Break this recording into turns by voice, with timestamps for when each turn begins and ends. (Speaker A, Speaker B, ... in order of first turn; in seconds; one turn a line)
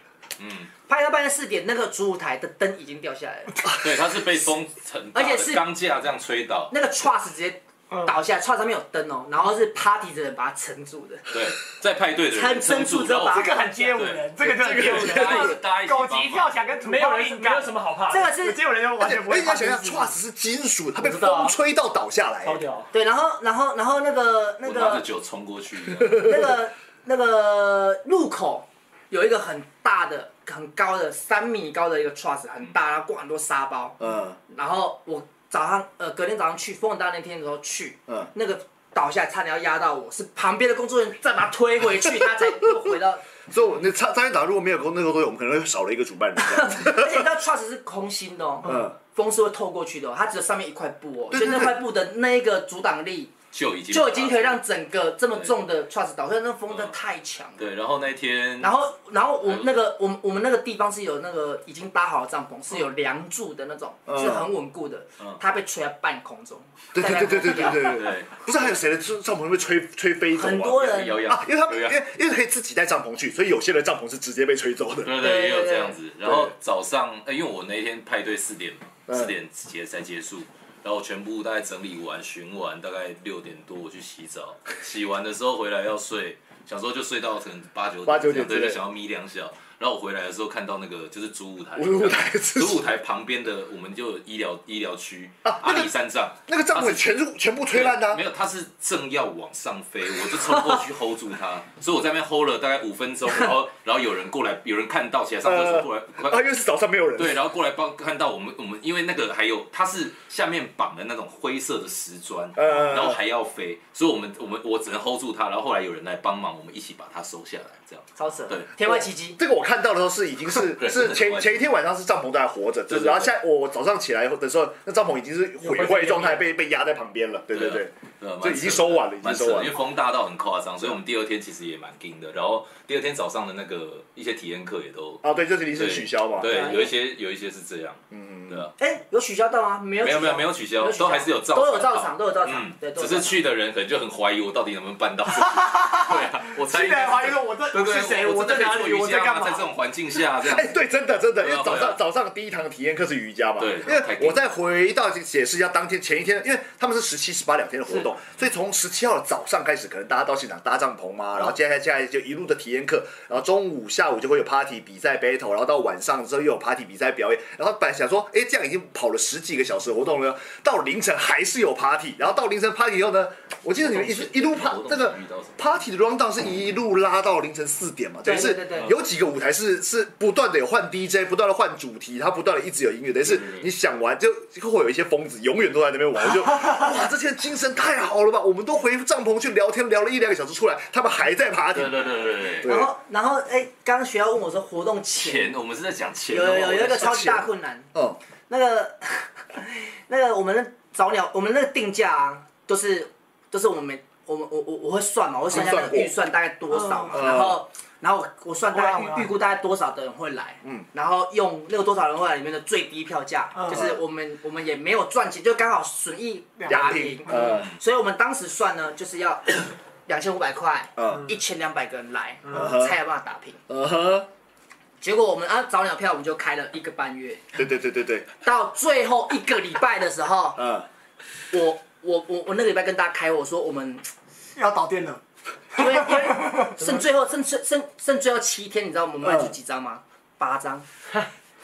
Speaker A: 0.4-0.7
Speaker B: 0.9-3.5
Speaker A: 3.7-6.7
Speaker B: 5.1-5.6
Speaker B: 6.7-11.2
Speaker A: 11.3-16.6
Speaker B: 12.3-13.7
Speaker C: 13.3-20.1
Speaker D: 14.5-15.5
Speaker E: 16.8-18.3
Speaker B: 18.1-18.6
Speaker D: 19.0-22.6
Speaker E: 21.0-21.5
Speaker E: 22.4-22.9
Speaker B: 22.9-25.0
Speaker A: 24.6-26.4
Speaker B: 26.1-34.0
Speaker D: 34.0-34.4
Speaker B: 34.5-43.2
Speaker D: 42.2-42.5
Speaker D: 43.5-47.2
Speaker B: 46.4-53.3
Speaker D: 48.6-48.9
Speaker D: 51.3-51.8
Speaker A: 53.5-54.6
Speaker B: 53.9-57.6
Speaker A: 57.6-58.7
Speaker B: 58.6-68.0
Speaker D: 64.1-64.5
Speaker D: 66.9-75.1
Speaker A: 67.8-68.7
Speaker B: 70.3-71.2
Speaker A: 70.8-72.0
Speaker A: 75.0-97.1
Speaker B: 75.2-75.9
Speaker D: 79.1-79.3
Speaker D: 88.0-88.8
Speaker D: 91.8-92.9
Speaker D: 95.4-95.9
Speaker D: 96.5-98.2
Speaker A: 97.7-106.4
Speaker D: 105.4-107.4
Speaker A: 107.2-118.7
Speaker D: 112.6-113.2
Speaker B: 118.2-119.4
Speaker D: 118.8-129.8
Speaker A: 120.7-121.6
Speaker A: 122.9-123.3
Speaker E: 125.6-126.3
Speaker A: 127.5-135.2
Speaker D: 135.2-136.5
Speaker A: 135.7-138.7
Speaker B: 136.4-136.9
Speaker D: 138.1-138.6
Speaker B: 138.8-143.4
Speaker A: 140.0-150.8
Speaker C: 145.3-149.7
Speaker D: 150.4-192.0
Speaker A: 151.4-152.0
Speaker A: 153.6-154.6
Speaker A: 173.8-175.7
Speaker B: 178.2-178.9
Speaker A: 183.2-183.7
Speaker A: 191.7-192.7
Speaker D: 192.6-192.9
Speaker B: 192.6-195.5
Speaker A: 195.2-197.1
Speaker B: 196.3-197.9
Speaker D: 196.9-198.2
Speaker B: 198.5-223.6
Speaker D: 205.5-206.1
Speaker C: 206.7-207.1
Speaker D: 207.1-207.6
Speaker C: 208.7-209.3
Speaker C: 213.5-213.8
Speaker D: 213.7-214.0
Speaker C: 216.6-217.4
Speaker D: 216.7-217.7
Speaker D: 220.9-221.3
Speaker D: 222.5-222.9
Speaker D: 223.7-224.3
Speaker B: 225.0-227.4
Speaker D: 227.5-228.3
Speaker B: 228.4-230.6
Speaker D: 230.6-230.9
Speaker B: 231.5-234.1
Speaker C: 234.6-235.2
Speaker C: 235.7-236.7
Speaker B: 235.7-240.8
Speaker D: 239.2-239.5